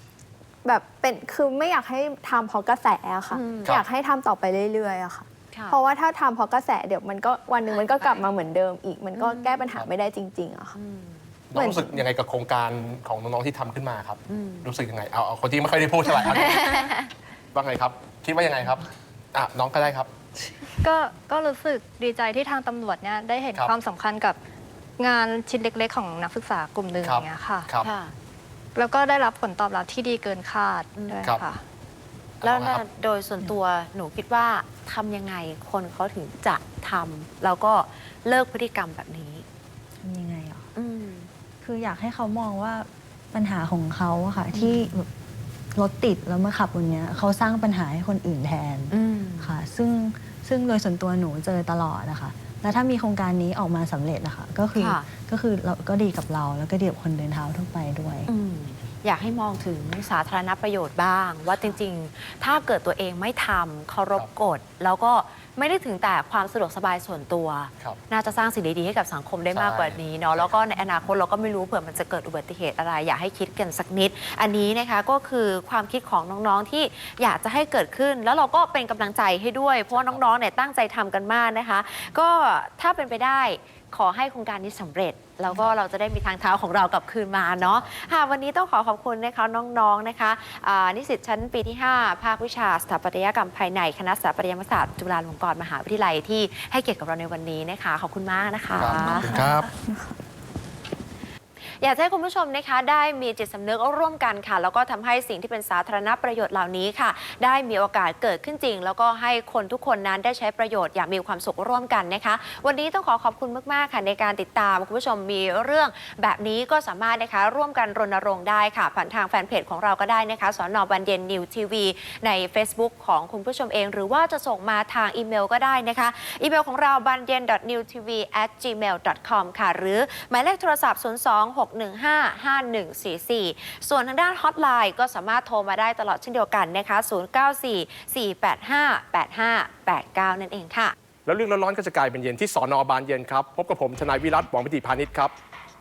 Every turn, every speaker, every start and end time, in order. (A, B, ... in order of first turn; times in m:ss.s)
0:00.6-0:10.8 A
0:03.3-0:03.7 B
0:03.6-0:03.8 C
0:05.5-0:05.8 B
0:07.7-0:08.1 B
0:09.2-0:09.7 B
0:10.7-0:11.3 B
0:11.5-0:16.8 C
0:11.5-0:12.0 A
0:14.3-0:14.7 B
0:16.1-0:17.1 B
0:17.5-0:20.1 C
0:20.8-0:24.4 D
0:25.0-0:27.7 D
0:27.0-0:27.9 C
0:27.8-0:28.1 B
0:28.7-0:31.6 D
0:32.4-0:32.8 C
0:32.4-0:39.4 B
0:40.0-0:40.7 E
0:40.7-0:41.3 B
0:41.6-0:45.1 E
0:44.5-0:44.9 B
0:45.8-0:58.3 E
0:48.9-0:49.5 B
0:54.7-0:55.1 B
0:58.3-1:39.3 B
1:09.5-1:10.6 C
1:19.9-1:20.2 C
1:25.5-1:25.8 C
1:27.6-1:27.9 C
1:38.8-1:39.7 C
1:39.2-1:40.1 A
1:41.8-2:20.9 B
2:21.2-2:25.3 C